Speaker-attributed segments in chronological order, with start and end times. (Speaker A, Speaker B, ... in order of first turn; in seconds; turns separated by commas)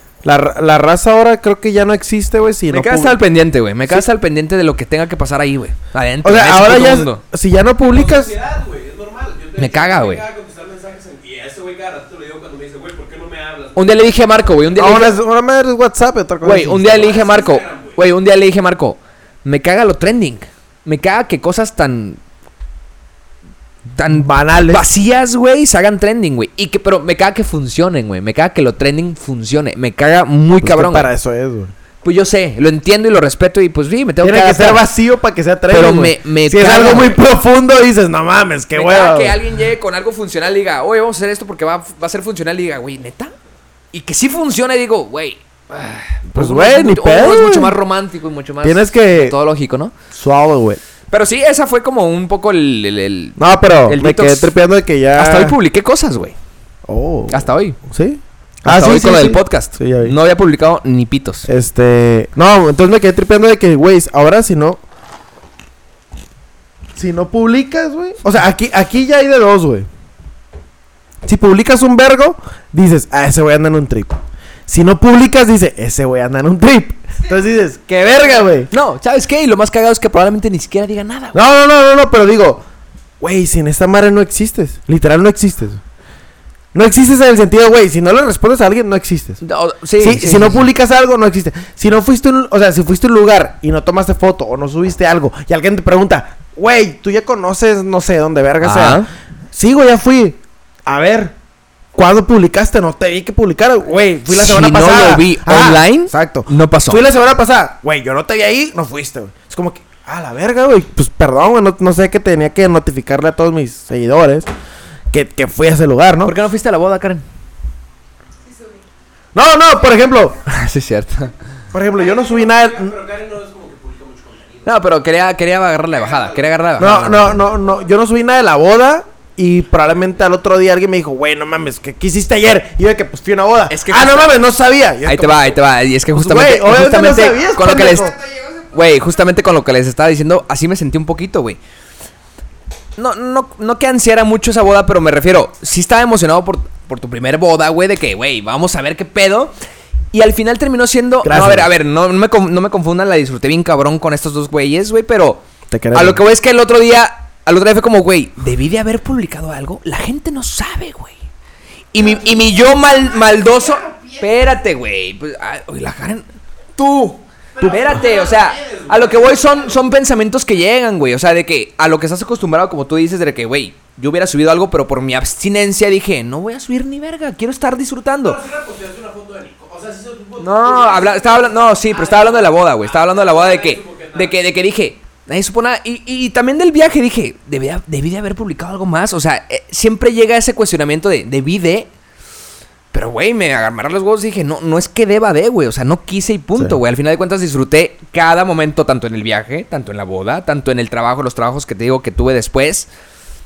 Speaker A: 0.2-3.2, Speaker B: 2.7-7.2, Speaker A: 6.2-8.3, Speaker C: 7.9-14.1, Speaker B: 9.6-10.2, Speaker B: 13.8-15.1, Speaker A: 14.8-17.2, Speaker B: 16.4-22.2, Speaker C: 16.9-18.0, Speaker B: 23.9-31.1, Speaker A: 24.1-24.9, Speaker A: 30.6-31.7, Speaker B: 32.0-34.8, Speaker A: 34.2-39.4, Speaker B: 35.7-37.2, Speaker B: 38.7-43.3, Speaker B: 43.9-49.9, Speaker A: 46.3-47.8, Speaker A: 48.6-49.4, Speaker A: 50.1-50.8, Speaker B: 51.1-54.5, Speaker A: 53.4-55.6, Speaker B: 55.2-56.4, Speaker A: 56.9-60.2, Speaker B: 57.3-57.8, Speaker B: 58.6-61.5, Speaker A: 61.5-64.8, Speaker A: 67.0-69.9, Speaker A: 71.2-78.7, Speaker B: 78.7-81.4, Speaker A: 81.3-82.6, Speaker A: 83.2-85.8, Speaker A: 86.7-89.4, Speaker B: 89.4-90.7, Speaker A: 90.0-101.3, Speaker B: 98.6-99.1, Speaker A: 102.0-114.5, Speaker B: 104.3-107.0, Speaker A: 115.1-116.3, Speaker B: 116.2-117.2, Speaker D: 118.4-118.9, Speaker A: 119.3-120.4, Speaker D: 120.0-120.4, Speaker B: 120.5-121.3, Speaker A: 121.7-123.0, Speaker C: 121.9-124.7, Speaker B: 124.7-127.5, Speaker C: 125.9-126.6, Speaker A: 126.8-138.2, Speaker D: 127.4-127.7, Speaker B: 133.7-134.4, Speaker B: 135.0-138.1, Speaker D: 137.1-139.4, Speaker B: 138.7-141.6, Speaker B: 143.0-149.5, Speaker B: 150.1-161.2, Speaker A: 151.2-151.7, Speaker A: 155.7-156.2, Speaker B: 161.9-178.4, Speaker D: 162.0-164.6, Speaker C: 167.6-169.8, Speaker C: 178.2-184.4, Speaker B: 180.4-191.9, Speaker B: 192.9-202.9